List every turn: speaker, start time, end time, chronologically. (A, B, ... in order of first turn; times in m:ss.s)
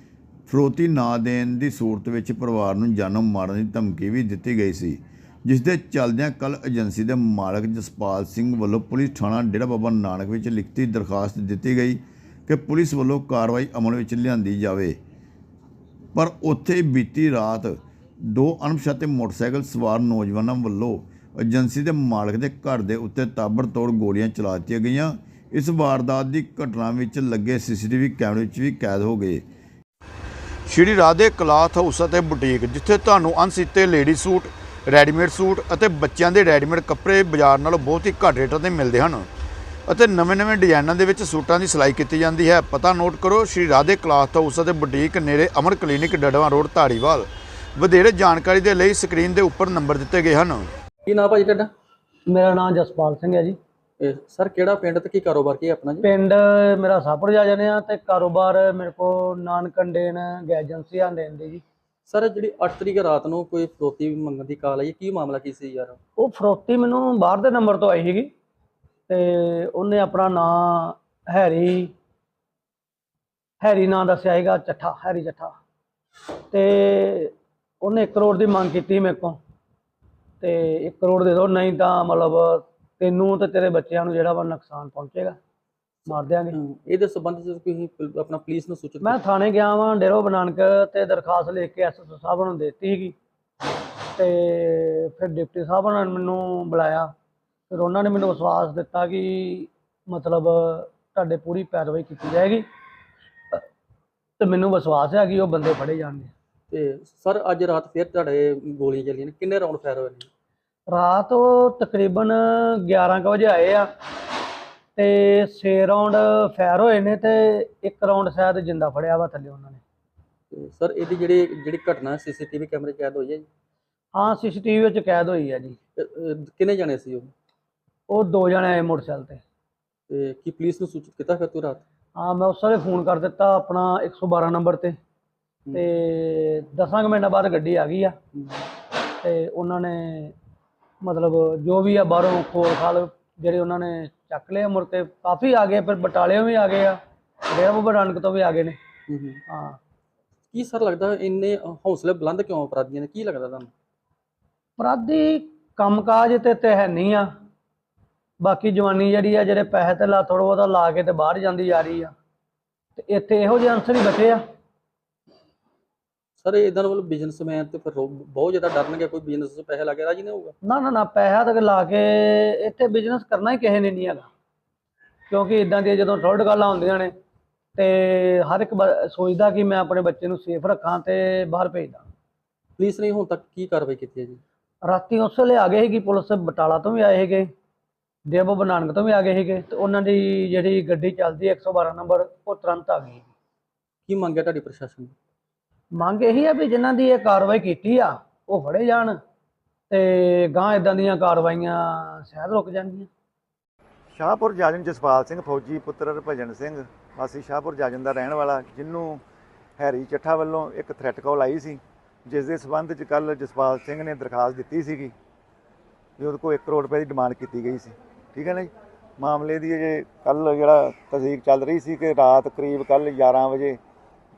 0:00.5-0:15.0 A
0:16.1-0:29.4 A
0:30.6-0:39.3 A
0:39.9-0:50.7 A
0:51.0-0:51.7 B
0:52.3-0:53.6 C
0:54.0-0:56.0 B
0:56.0-1:01.6 C
1:02.1-1:06.0 B
1:06.2-1:08.3 C
1:09.1-1:11.9 C
1:13.6-1:15.6 C
1:16.5-1:19.4 C
1:20.4-1:25.4 C
1:26.1-1:26.6 C
1:26.1-1:29.2 B
1:29.0-1:33.2 C
1:34.2-1:37.1 C
1:37.7-1:42.6 C
1:44.4-1:46.3 C
1:46.7-1:50.3 B
1:50.9-1:53.9 C
1:55.0-1:59.8 C
2:00.5-2:03.4 B
2:04.1-2:05.8 C
2:06.0-2:07.3 B
2:08.1-2:09.4 C
2:10.1-2:11.8 B
2:12.2-2:14.9 C
2:15.7-2:18.2 C
2:18.3-2:18.7 B
2:19.2-2:20.3 C
2:21.0-2:27.0 C
2:27.5-2:28.8 C
2:29.1-2:29.4 B
2:29.5-2:29.8 C
2:30.5-2:33.7 B
2:34.8-2:37.3 C
2:38.4-2:42.1 C
2:43.0-2:44.4 C
2:46.4-2:50.5 B
2:50.6-2:54.3 C
2:55.3-2:57.1 C
2:57.8-3:02.1 C
3:02.8-3:04.4 B
3:04.8-3:07.5 C
3:08.3-3:13.3 C
3:14.1-3:15.1 B
3:15.9-3:19.2 C
3:19.9-3:23.1 C
3:24.1-3:29.2 D
3:29.8-3:35.1 D
3:36.2-3:43.8 D